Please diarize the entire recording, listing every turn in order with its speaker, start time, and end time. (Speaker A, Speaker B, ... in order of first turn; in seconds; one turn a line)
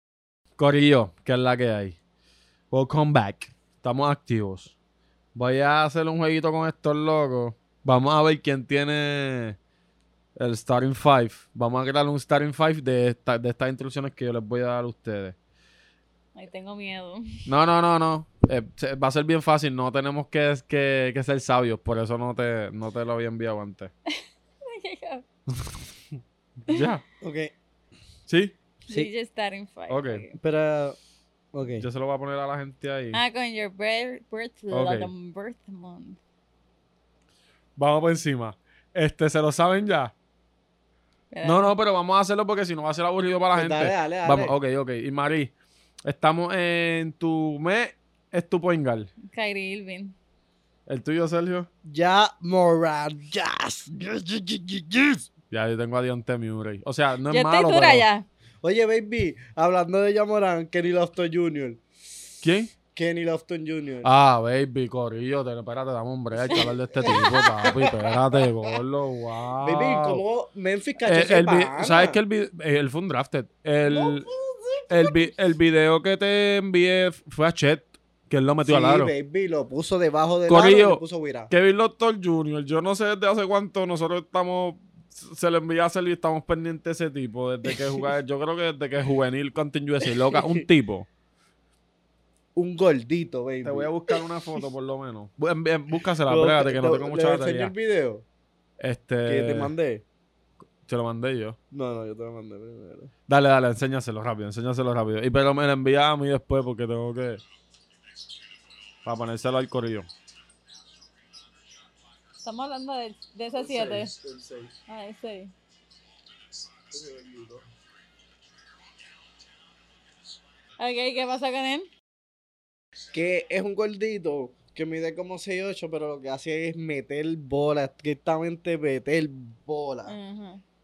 Speaker A: 0.6-2.0
Speaker A: 2.7-4.8
Speaker A: 5.3-9.6
Speaker A: 10.4-15.4
Speaker B: 16.4-17.4
Speaker A: 17.5-23.9
Speaker B: 24.7-25.2
Speaker A: 25.5-25.8
Speaker A: 26.7-27.0
Speaker C: 27.2-27.5
Speaker A: 28.3-28.6
Speaker B: 28.9-30.4
Speaker A: 29.9-30.2
Speaker C: 30.4-31.0
Speaker C: 31.5-31.9
Speaker A: 31.8-33.2
Speaker B: 33.1-36.2
Speaker A: 34.7-35.1
Speaker A: 37.8-40.1
Speaker B: 41.3-41.7
Speaker A: 41.4-45.5
Speaker C: 43.5-44.6
Speaker A: 46.0-49.1
Speaker B: 49.3-50.1
Speaker A: 50.9-51.7
Speaker C: 51.9-55.3
Speaker A: 55.5-58.1
Speaker B: 57.3-58.3
Speaker C: 58.6-61.8
Speaker A: 62.4-62.7
Speaker C: 62.9-64.1
Speaker A: 64.0-70.2
Speaker C: 66.5-68.5
Speaker B: 66.5-67.8
Speaker C: 69.6-72.2
Speaker A: 71.0-74.3
Speaker C: 73.9-75.4
Speaker A: 74.9-79.1
Speaker C: 78.6-81.5
Speaker A: 80.5-91.1
Speaker C: 90.3-90.7
Speaker C: 92.5-94.2
Speaker A: 93.6-97.7
Speaker C: 96.3-98.2
Speaker A: 98.8-99.7
Speaker C: 99.2-100.0
Speaker A: 100.8-101.6
Speaker C: 101.7-103.1
Speaker A: 103.3-107.4
Speaker A: 109.0-110.1
Speaker B: 112.4-114.1
Speaker C: 113.5-114.8
Speaker B: 114.9-115.5
Speaker C: 116.9-117.7
Speaker B: 120.8-121.9
Speaker C: 123.1-130.2
Speaker B: 130.1-130.6